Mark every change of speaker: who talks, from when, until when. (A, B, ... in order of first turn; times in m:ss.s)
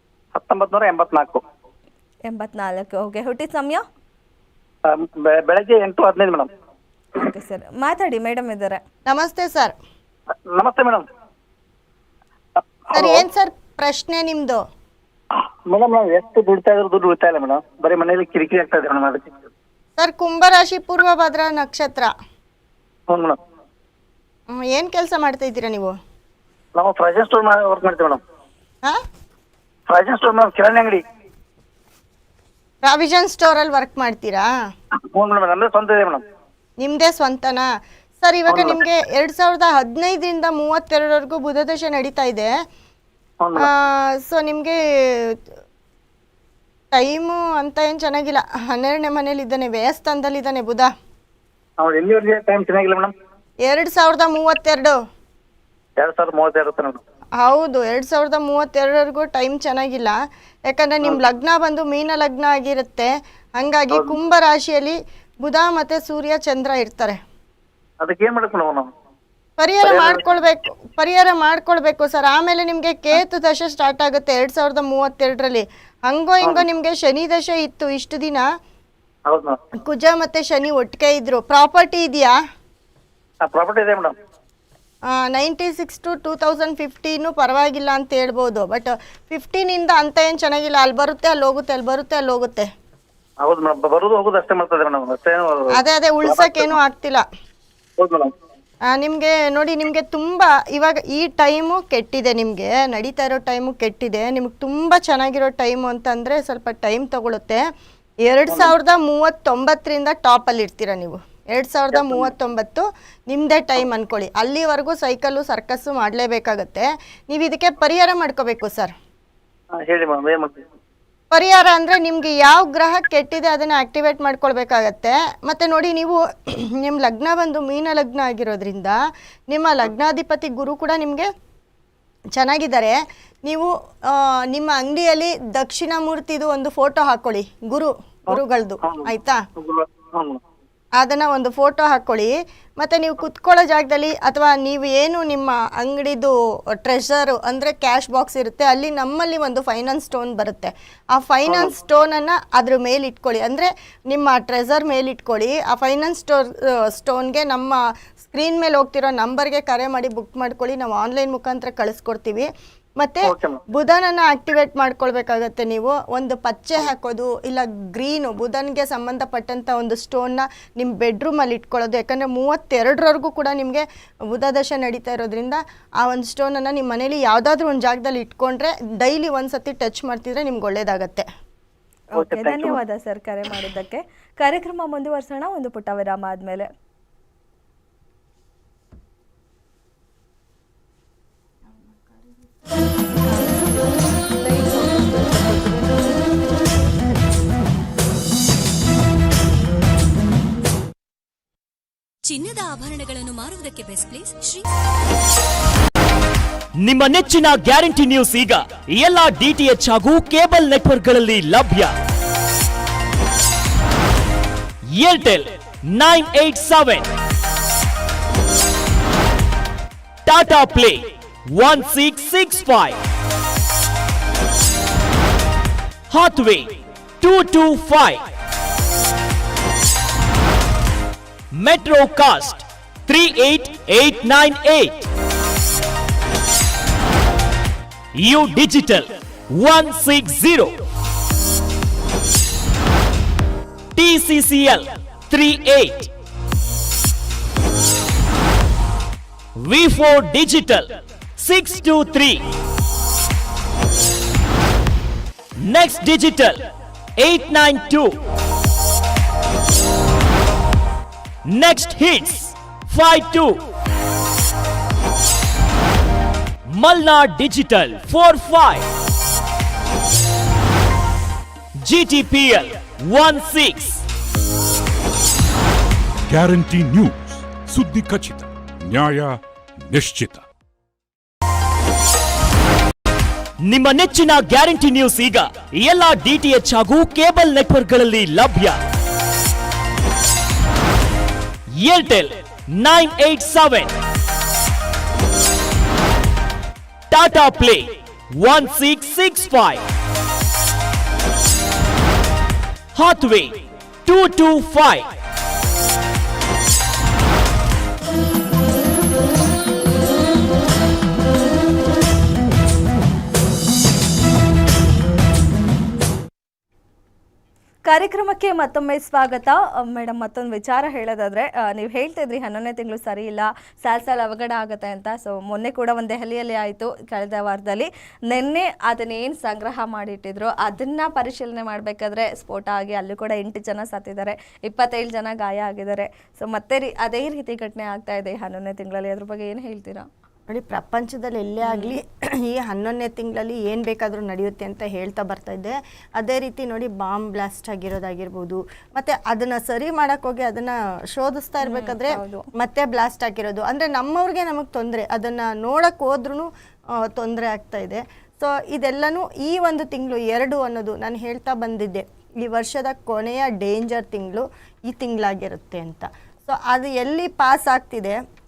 0:00.4-0:01.4 A
0:02.3-0:03.8 B
0:04.8-0:06.5 A
0:07.2-0:08.8 B
0:09.1-0:09.8 C
0:10.5-0:11.0 A
0:12.9-0:13.2 A
0:12.9-0:14.6 C
0:15.7-0:19.3 A
0:20.0-0:22.1 C
0:23.1-0:23.4 A
0:24.5-0:26.0 C
0:26.8-0:28.2 A
0:29.9-0:31.0 A
0:32.8-0:34.5 C
0:34.9-0:36.2 A
0:36.8-0:37.7 C
0:38.2-0:42.5 C
0:38.5-0:38.8 A
0:43.4-0:43.7 A
0:43.6-0:45.4 C
0:46.9-0:50.9 C
0:51.8-0:53.1 A
0:53.6-0:55.0 C
0:56.0-0:57.0 A
0:57.4-1:07.2 C
1:03.9-1:04.2 A
1:08.0-1:08.9 A
1:09.6-1:18.4 C
1:09.8-1:10.2 A
1:19.3-1:19.6 A
1:19.8-1:22.4 C
1:23.4-1:24.2 A
1:25.0-1:32.7 C
1:33.4-1:36.7 A
1:35.7-1:37.2 C
1:38.0-1:38.3 A
1:38.9-1:47.6 C
1:48.2-1:58.9 C
1:51.9-1:52.3 A
1:59.7-2:00.6 A
2:01.3-2:09.0 C
2:09.5-2:11.3 C
2:12.3-2:19.4 C
2:18.3-2:20.4 A
2:21.0-3:01.3 C
2:43.2-2:43.6 A
3:02.1-3:06.7 B
3:02.2-3:02.8 A
3:11.8-3:12.2 C
3:13.2-3:17.2 C
3:22.3-3:24.7 D
3:26.8-3:31.9 E
3:34.9-3:37.1 E
3:40.3-3:43.0 E
3:46.1-3:48.2 E
3:51.5-3:55.0 E
3:58.2-4:00.8 E
4:04.0-4:06.1 E
4:09.6-4:12.4 E
4:15.6-4:16.6 E
4:17.2-4:18.2 E
4:21.4-4:23.6 E
4:26.7-4:28.9 E
4:31.8-4:34.0 E
4:36.3-4:40.4 F
4:43.6-4:48.8 E
4:51.8-4:53.9 E
4:57.1-4:59.8 E
5:02.9-5:05.1 E
5:17.9-5:40.1 B
5:40.5-6:08.2 C
5:41.7-5:41.9 B
5:51.6-5:52.5 B